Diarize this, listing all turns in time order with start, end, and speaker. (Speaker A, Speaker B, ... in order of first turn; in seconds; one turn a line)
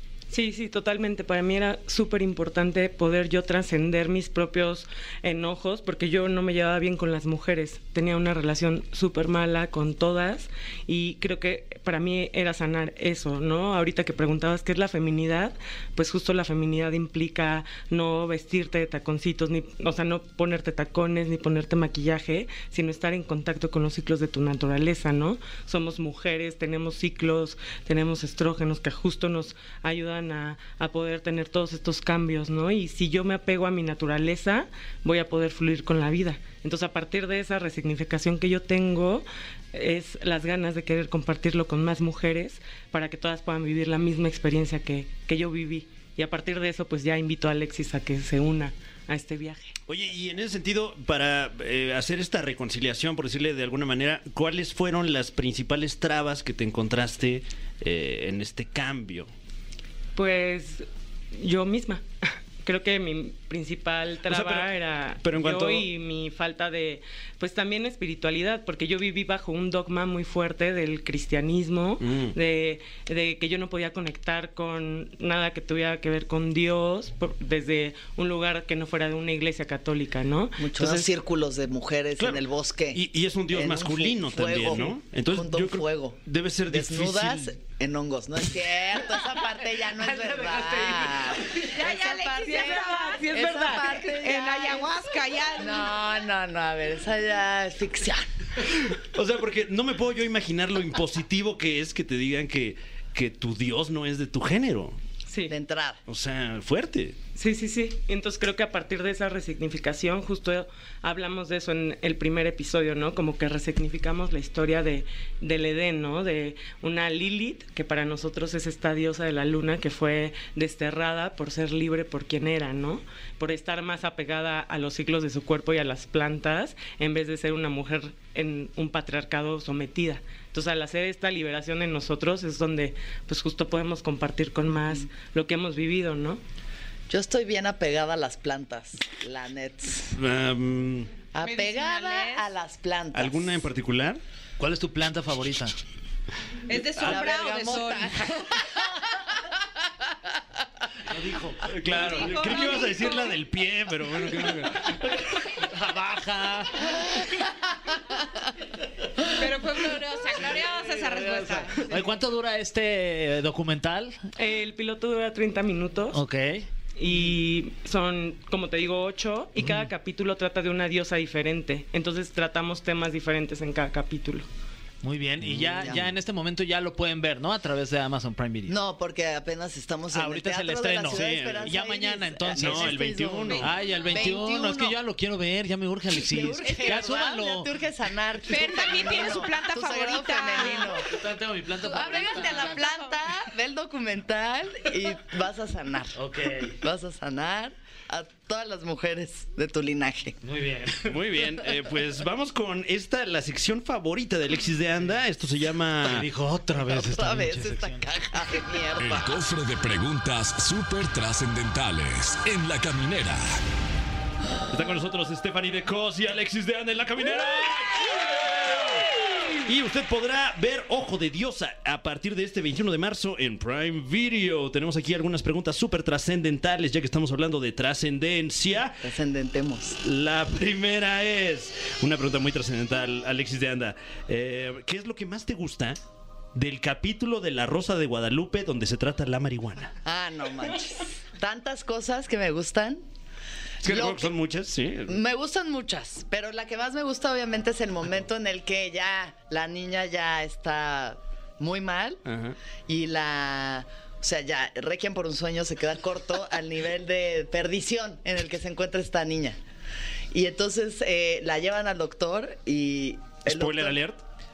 Speaker A: 0.3-49.8
Speaker B: 49.9-59.3
Speaker A: 60.1-62.0
Speaker A: 62.6-81.1
Speaker B: 64.2-65.9
Speaker B: 72.0-72.3
Speaker C: 80.6-94.9
Speaker B: 82.2-87.5
Speaker A: 90.2-91.0
Speaker D: 91.6-95.9
Speaker A: 92.4-94.2
Speaker C: 95.6-98.3
Speaker B: 98.8-105.0
Speaker A: 105.3-105.6
Speaker C: 105.5-106.0
Speaker B: 106.1-107.2
Speaker A: 107.3-136.4
Speaker C: 137.1-140.1
Speaker B: 140.1-141.1
Speaker C: 141.3-143.7
Speaker D: 141.4-142.5
Speaker B: 143.1-144.2
Speaker E: 144.6-145.7
Speaker D: 146.7-148.4
Speaker C: 147.0-150.1
Speaker E: 151.1-152.6
Speaker B: 151.6-155.2
Speaker D: 151.9-153.4
Speaker E: 155.6-157.1
Speaker D: 159.3-162.1
Speaker E: 161.0-164.2
Speaker A: 164.4-166.2
Speaker E: 166.1-166.7
Speaker A: 167.0-174.5
Speaker E: 169.6-169.9
Speaker E: 175.0-178.8
Speaker B: 175.4-176.0
Speaker C: 175.8-176.1
Speaker C: 178.7-185.0
Speaker E: 180.1-183.0
Speaker B: 181.1-181.7
Speaker B: 182.5-183.7
Speaker D: 183.5-184.1
Speaker E: 183.6-187.7
Speaker C: 186.1-191.1
Speaker D: 186.6-187.2
Speaker D: 188.5-191.0
Speaker E: 191.0-192.7
Speaker D: 191.8-193.2
Speaker C: 191.9-196.2
Speaker E: 196.2-196.8
Speaker C: 196.8-200.4
Speaker E: 200.4-201.2
Speaker B: 201.1-206.3
Speaker E: 206.0-208.1
Speaker C: 206.7-209.4
Speaker F: 209.0-213.6
Speaker B: 214.7-229.1
Speaker C: 229.0-230.0
Speaker B: 230.0-236.0
Speaker B: 236.5-239.9
Speaker C: 240.0-243.0
Speaker B: 243.8-245.2
Speaker C: 243.8-244.3
Speaker C: 245.1-252.2
Speaker B: 252.2-252.6
Speaker C: 252.9-259.6
Speaker C: 260.3-264.0
Speaker B: 263.4-264.2